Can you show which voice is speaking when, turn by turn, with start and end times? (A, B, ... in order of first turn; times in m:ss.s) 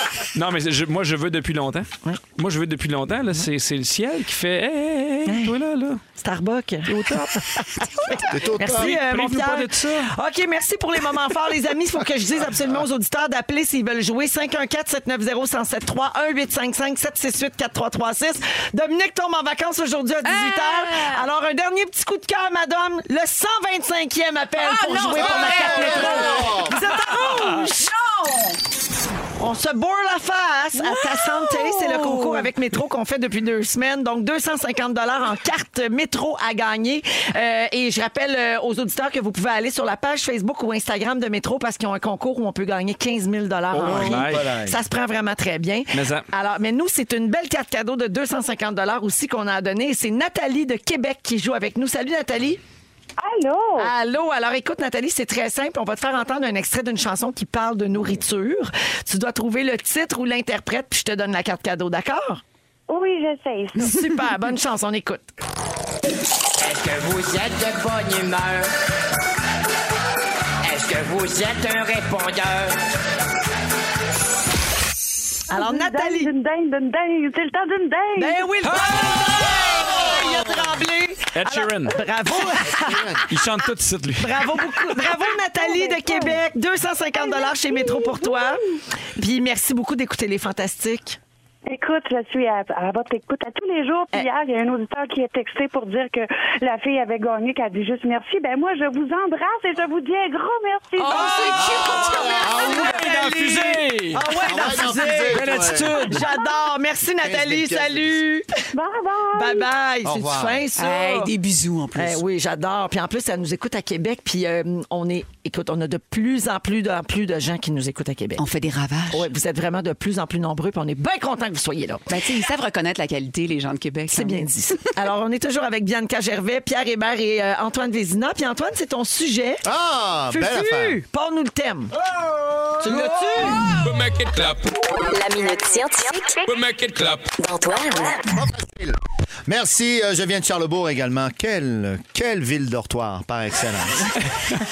0:00.3-0:06.0 A
0:05.2-0:05.5 B
0:06.2-0:27.9 B
0:08.2-0:09.0 C
0:08.7-0:10.1 A
0:20.2-0:21.2 D
0:24.6-0:28.6 D
0:25.1-0:26.8 C
0:29.4-0:52.6 B
0:30.8-0:32.5 D
0:43.7-0:44.5 A
0:43.8-0:44.7 C
0:45.9-0:46.3 A
0:53.2-0:53.9 E
0:53.8-1:02.4 B
1:02.9-1:04.0 E
1:03.8-1:05.3 B
1:06.6-1:08.7 F
1:10.6-1:12.8 F
1:15.5-1:16.3 B
1:15.5-1:18.4 E
1:18.2-1:23.2 B
1:18.6-1:19.4 A
1:21.4-1:22.0 A
1:22.8-1:23.2 C
1:23.3-1:24.4 A
1:24.2-1:28.6 B
1:25.6-1:26.4 E
1:27.1-1:28.8 E
1:29.2-1:31.2 B
1:31.7-1:42.0 E
1:41.0-1:41.5 A
1:41.0-1:48.7 B
1:41.1-1:42.6 D
1:41.6-1:42.9 C
1:42.5-1:44.2 A
1:44.4-1:46.0 C
1:45.0-1:46.3 A
1:47.0-1:48.2 C
1:48.7-1:49.7 E
1:49.3-1:51.3 B
1:50.0-1:50.6 C
1:50.8-1:52.2 D
1:52.0-1:58.4 B
1:58.4-1:59.3 D
1:59.1-2:02.1 B
2:02.1-2:04.5 D
2:04.1-2:09.6 B
2:09.6-2:11.0 C
2:10.3-2:11.9 B
2:12.8-2:13.7 B
2:14.9-2:16.7 G
2:17.4-2:18.3 G
2:18.2-2:24.2 C